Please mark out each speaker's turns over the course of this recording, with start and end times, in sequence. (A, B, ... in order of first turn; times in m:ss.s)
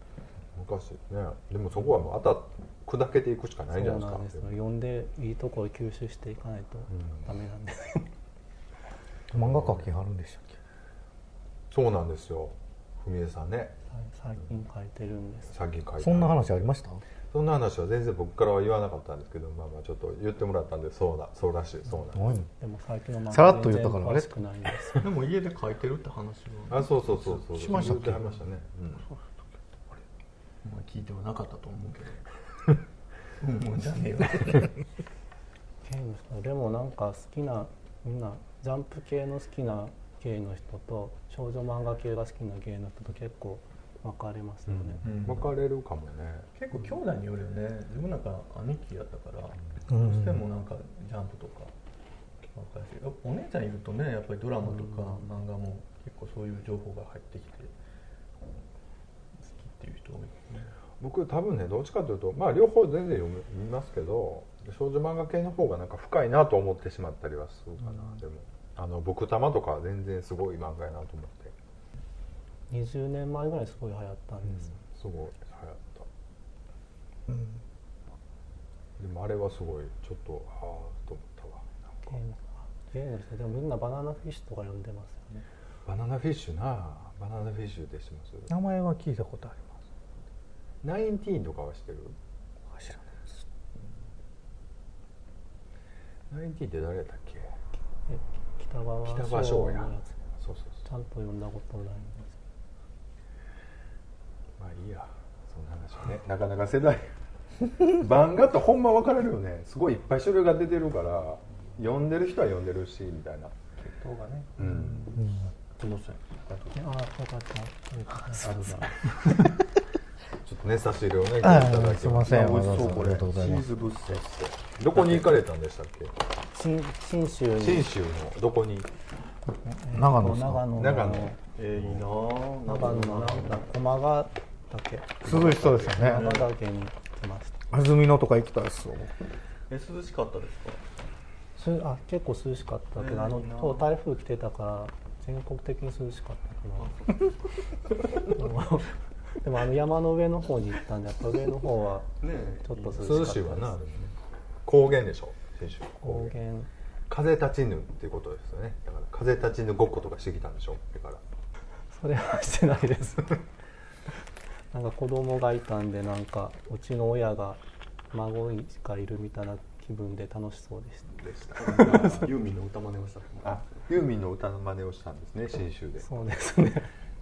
0:00.6-0:04.6 A
0:03.7-0:08.1 B
0:07.0-0:07.2 A
0:09.3-0:10.6 C
0:09.4-0:09.8 A
0:11.7-0:13.8 A
0:13.9-0:15.6 B
0:15.5-0:16.7 A
0:16.0-0:17.0 C
0:17.3-0:22.4 A
0:22.1-0:22.5 C
0:22.6-0:25.0 B
0:23.3-0:24.3 C
0:25.0-0:28.2 D
0:26.7-0:29.0 A
0:27.5-0:28.3 C
0:30.6-0:32.3 D
0:33.4-0:34.8 D
0:35.8-0:45.2 B
0:44.7-0:46.5 A
0:45.0-0:45.5 D
0:46.6-0:51.7 D
0:49.9-0:50.4 C
0:52.5-0:57.7 D
0:59.4-1:00.7 D
1:01.0-1:11.5 A
1:12.7-1:14.8 B
1:14.6-1:16.1 A
1:19.0-1:22.1 A
1:22.1-1:25.4 B
1:25.9-1:28.5 A
1:28.5-1:29.7 C
1:30.8-1:32.2 A
1:32.7-1:33.4 C
1:36.3-1:37.5 A
1:38.1-1:40.2 B
1:39.1-1:40.8 A
1:40.8-1:42.4 B
1:44.6-1:47.1 A
1:47.6-1:53.6 A
1:53.8-1:56.8 D
1:54.6-1:55.1 A
1:55.1-1:55.5 C
1:56.8-1:58.8 B
1:58.3-1:59.4 D
2:00.4-2:02.6 A
2:01.4-2:03.7 C
2:02.2-2:04.2 D
2:03.6-2:06.2 A
2:04.9-2:05.4 D
2:06.5-2:07.9 B
2:07.6-2:08.9 A
2:09.6-2:11.4 B
2:09.9-2:10.7 C
2:10.7-2:12.1 A
2:11.6-2:13.6 D
2:12.7-2:17.6 B
2:15.2-2:16.3 C
2:16.0-2:16.5 D
2:17.7-2:19.1 C
2:19.7-2:20.8 D
2:21.6-2:27.1 B
2:23.0-2:23.9 D
2:26.8-2:28.3 D
2:28.2-2:32.1 B
2:32.2-2:33.4 D
2:32.6-2:33.8 B
2:33.0-2:34.1 A
2:34.6-2:36.3 A
2:36.0-2:36.7 B
2:37.1-2:41.2 A
2:41.9-2:43.4 B
2:44.7-2:47.6 B
2:48.1-2:52.3 B
2:51.2-2:52.2 A
2:51.6-2:53.7 D
2:53.4-2:56.1 A
2:56.0-2:56.9 B